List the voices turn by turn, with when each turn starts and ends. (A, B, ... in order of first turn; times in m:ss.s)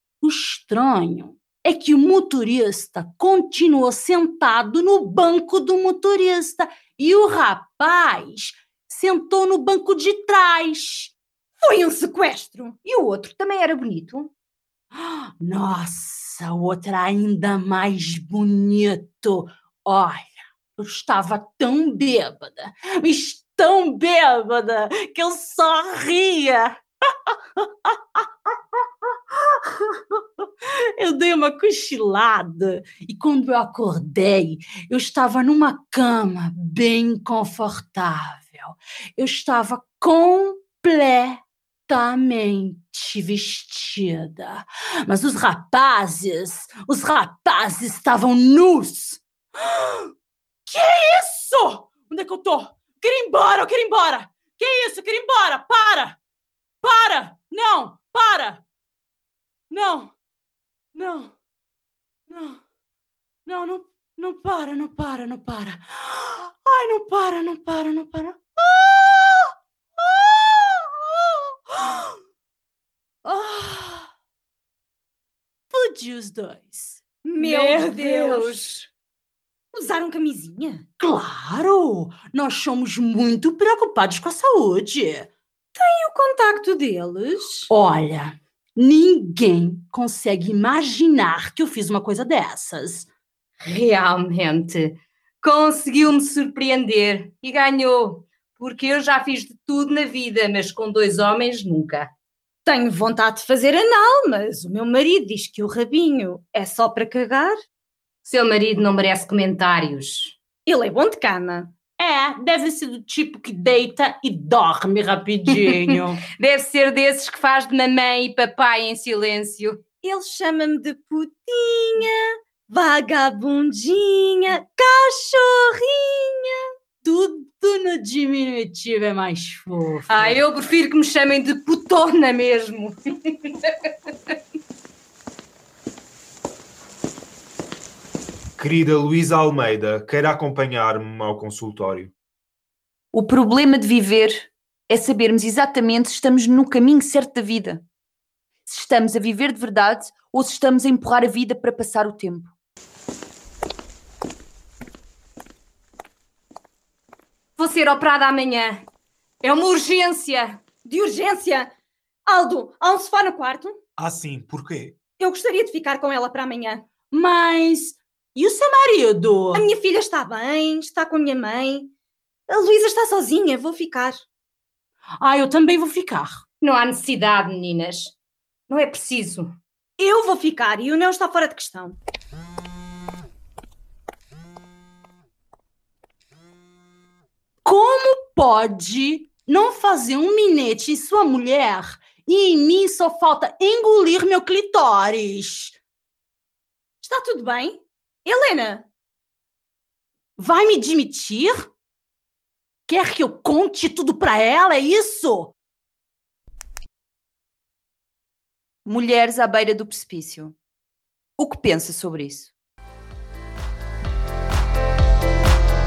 0:00.2-0:11.2 A
0:11.6-0:12.8 B
0:12.8-0:14.3 C
0:15.0-0:28.6 A
0:29.3-0:30.4 A
0:31.0-0:50.1 A
0:50.7-0:56.2 A
0:56.8-0:58.6 A
0:59.7-1:00.1 A
1:00.9-1:01.3 A
1:02.3-1:02.6 A
1:03.5-1:12.2 A
1:13.2-1:14.1 A
1:15.7-1:17.0 A
1:17.2-1:18.5 B
1:17.4-1:18.9 C
1:19.7-1:20.8 B
1:21.0-1:25.3 A
1:25.8-1:27.7 B
1:27.7-1:33.1 A
1:33.6-1:42.1 C
1:42.7-1:47.6 B
1:48.3-1:50.4 C
1:50.7-1:51.7 B
1:52.0-1:56.2 A
1:55.7-1:59.8 C
2:00.0-2:06.7 B
2:07.0-2:10.4 A
2:10.1-2:14.3 C
2:18.6-2:22.1 D
2:23.1-2:27.8 E
2:28.7-2:32.5 E
2:37.6-2:38.9 C
2:39.4-2:40.6 C
2:40.8-2:41.7 B
2:42.3-2:43.8 B
2:44.0-2:45.0 D
2:45.2-2:46.8 B
2:47.1-2:49.7 A
2:49.5-2:51.9 B
2:52.5-2:54.2 B
2:55.2-2:56.4 A
2:56.6-2:58.1 C
2:58.7-2:59.6 C
3:00.0-3:02.0 B
3:07.6-3:15.8 A
3:17.0-3:18.9 B
3:20.4-3:21.7 A
3:22.9-3:25.5 A
3:28.8-3:30.6 E
3:31.4-3:32.5 E